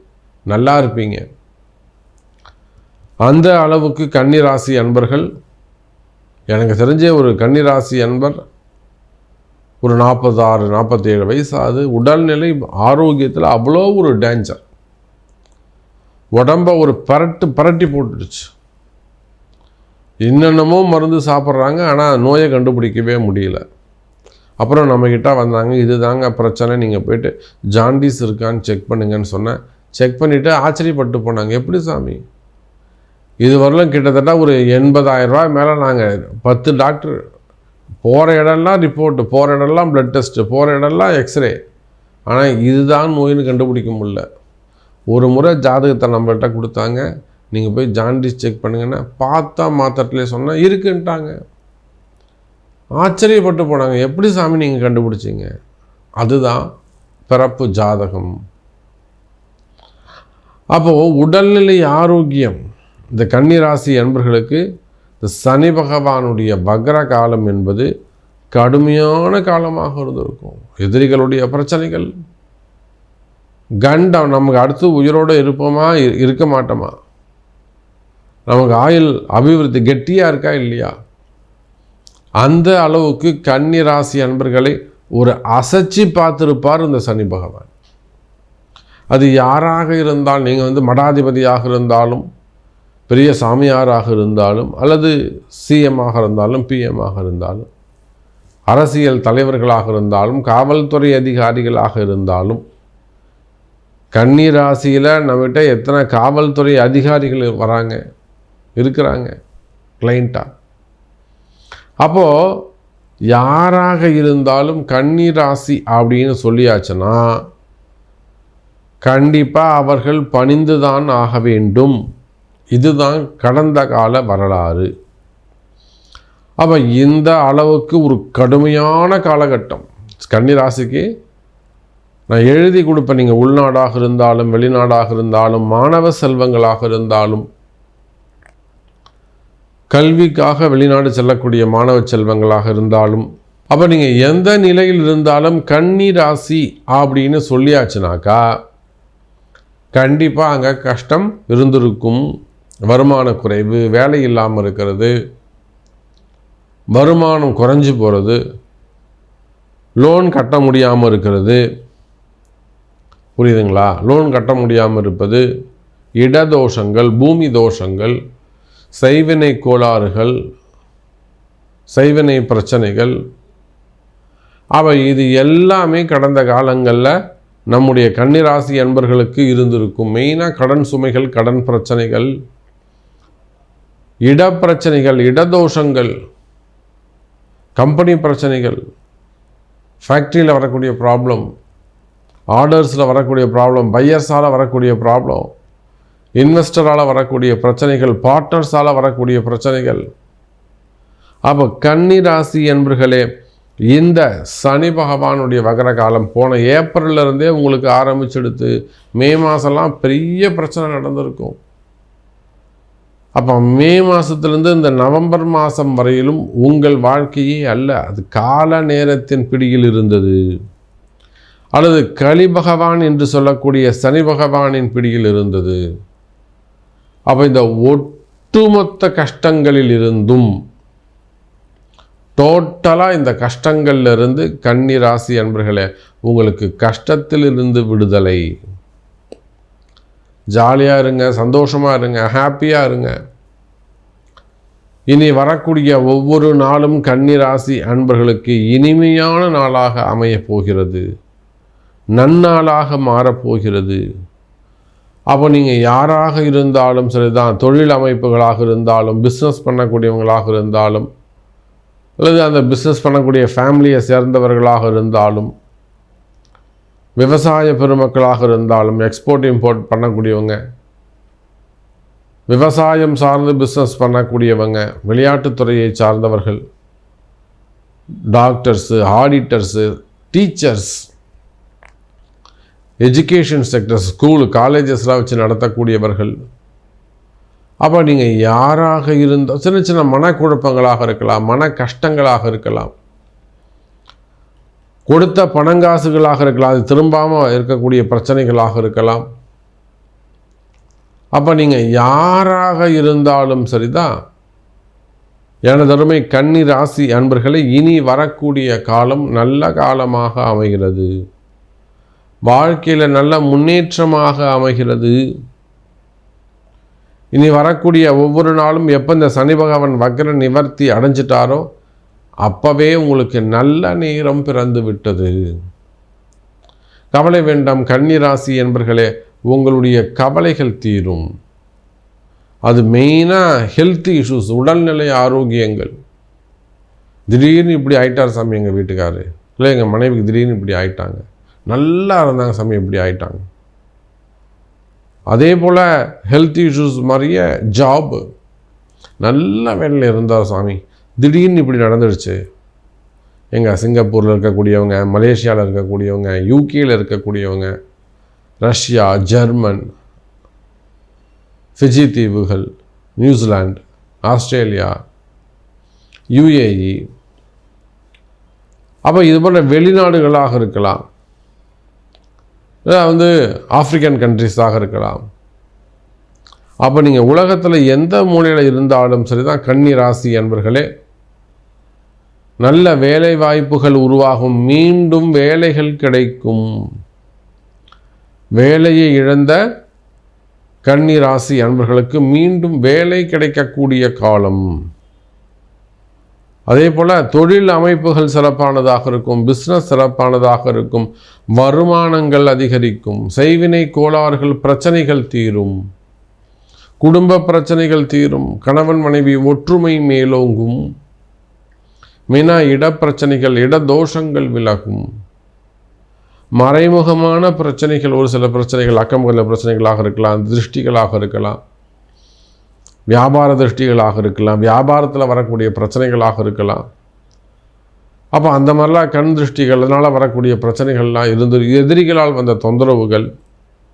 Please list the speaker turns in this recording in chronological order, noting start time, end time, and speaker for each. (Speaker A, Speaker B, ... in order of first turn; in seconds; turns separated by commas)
Speaker A: 0.5-1.2, Speaker A: 3.3-5.3, Speaker A: 6.5-8.4, Speaker A: 9.8-14.6, Speaker A: 16.4-18.5, Speaker A: 20.3-23.6, Speaker A: 24.6-32.2, Speaker A: 33.4-37.2, Speaker A: 38.0-41.6, Speaker A: 42.3-44.2, Speaker A: 45.1-51.4, Speaker A: 53.0-55.5, Speaker A: 56.2-56.6, Speaker A: 57.3-58.3, Speaker A: 60.8-62.6, Speaker A: 63.1-64.6, Speaker A: 65.2-67.9, Speaker A: 68.5-72.1, Speaker A: 73.8-77.0, Speaker A: 78.5-80.9, Speaker A: 82.4-87.7, Speaker A: 89.1-92.2, Speaker A: 93.1-97.7, Speaker A: 98.7-102.6, Speaker A: 104.2-108.0, Speaker A: 108.8-109.3, Speaker A: 110.0-110.5, Speaker A: 112.0-112.6, Speaker A: 113.3-117.2, Speaker A: 119.0-122.0, Speaker A: 122.8-124.9, Speaker A: 126.6-131.1, Speaker A: 132.3-137.5, Speaker A: 139.9-148.4, Speaker A: 149.9-152.2, Speaker A: 152.9-155.1, Speaker A: 156.9-158.4, Speaker A: 160.0-161.6, Speaker A: 163.4-165.4, Speaker A: 166.2-168.2, Speaker A: 168.9-170.4, Speaker A: 171.9-173.2, Speaker A: 174.8-177.1, Speaker A: 177.7-182.3, Speaker A: 184.3-186.1, Speaker A: 187.8-188.8, Speaker A: 190.0-191.5, Speaker A: 192.6-195.5, Speaker A: 196.4-200.1, Speaker A: 201.5-203.3, Speaker A: 203.9-211.6, Speaker A: 213.4-220.4, Speaker A: 221.8-225.8, Speaker A: 227.3-230.5, Speaker A: 232.4-238.4, Speaker A: 240.6-243.1, Speaker A: 245.1-251.0, Speaker A: 252.2-254.0, Speaker A: 255.3-261.1, Speaker A: 262.2-265.5, Speaker A: 267.2-270.6, Speaker A: 272.5-276.6, Speaker A: 278.3-281.0, Speaker A: 283.0-286.3, Speaker A: 287.8-292.9, Speaker A: 295.1-299.2, Speaker A: 301.4-304.1, Speaker A: 305.7-311.1, Speaker A: 312.5-315.1, Speaker A: 317.4-321.7, Speaker A: 322.5-325.3, Speaker A: 327.1-331.3, Speaker A: 332.7-335.9, Speaker A: 337.3-343.4, Speaker A: 345.3-348.2, Speaker A: 349.2-352.4, Speaker A: 353.6-357.7, Speaker A: 358.6-359.8, Speaker A: 361.8-362.7, Speaker A: 363.2-364.9, Speaker A: 366.4-367.0, Speaker A: 369.1-371.0, Speaker A: 372.9-375.2, Speaker A: 376.8-380.9, Speaker A: 382.6-386.7, Speaker A: 388.6-389.6, Speaker A: 390.9-394.6, Speaker A: 396.7-405.8, Speaker A: 407.0-410.8, Speaker A: 412.3-415.1, Speaker A: 416.6-421.6, Speaker A: 423.1-426.9, Speaker A: 428.4-433.3